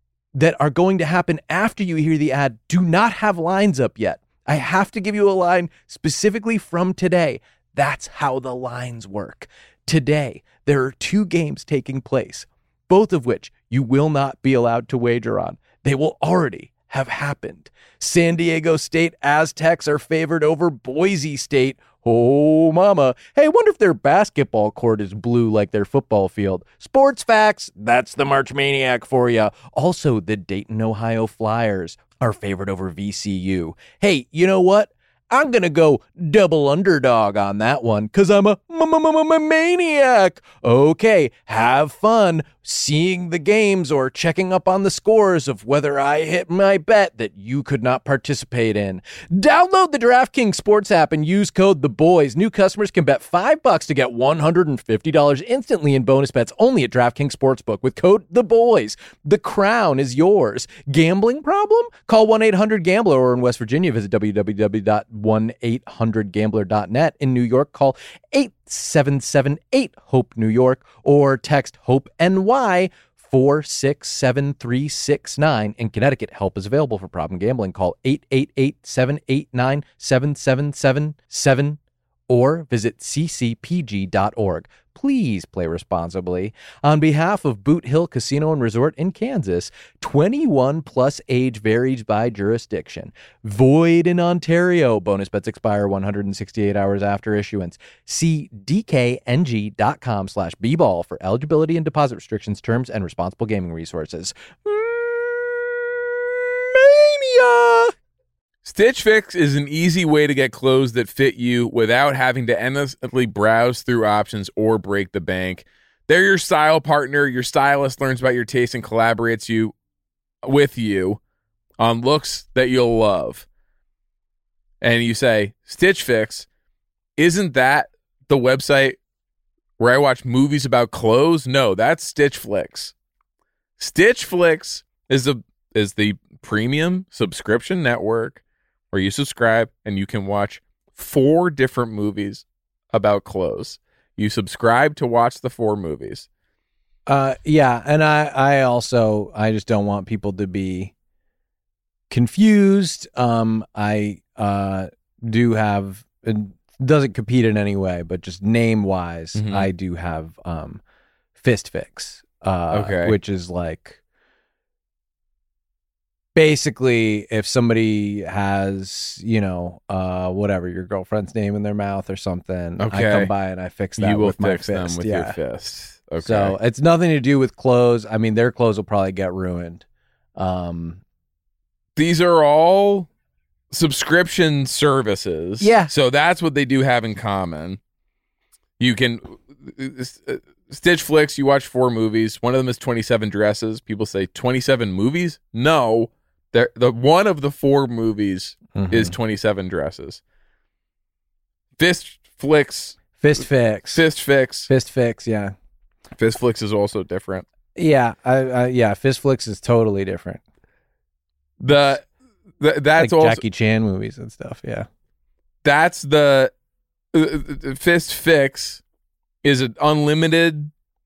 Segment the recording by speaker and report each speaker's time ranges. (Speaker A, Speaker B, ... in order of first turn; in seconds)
Speaker A: 0.3-107.9, 147.1-150.9, 152.1-160.8, 161.4-164.0, 166.3-175.4, 176.2-179.8, 180.3-181.0, 185.6-185.9, 198.8-199.1, 203.1-204.0, 204.7-205.5, 207.8-210.4, 213.0-214.9
Speaker B: 108.6-119.7, 120.4-121.2, 121.8-123.4, 124.8-126.5, 127.2-128.9, 129.8-132.9, 133.8-138.4, 138.9-146.2, 159.3-159.7, 162.7-163.2, 172.8-173.3, 174.0-176.6, 181.9-183.1, 183.7-187.8, 188.8-200.2, 201.8-203.0, 203.9-204.7, 206.2-207.4, 211.6-212.0, 212.6-213.4, 215.6-216.5, 217.1-218.8, 219.4-220.7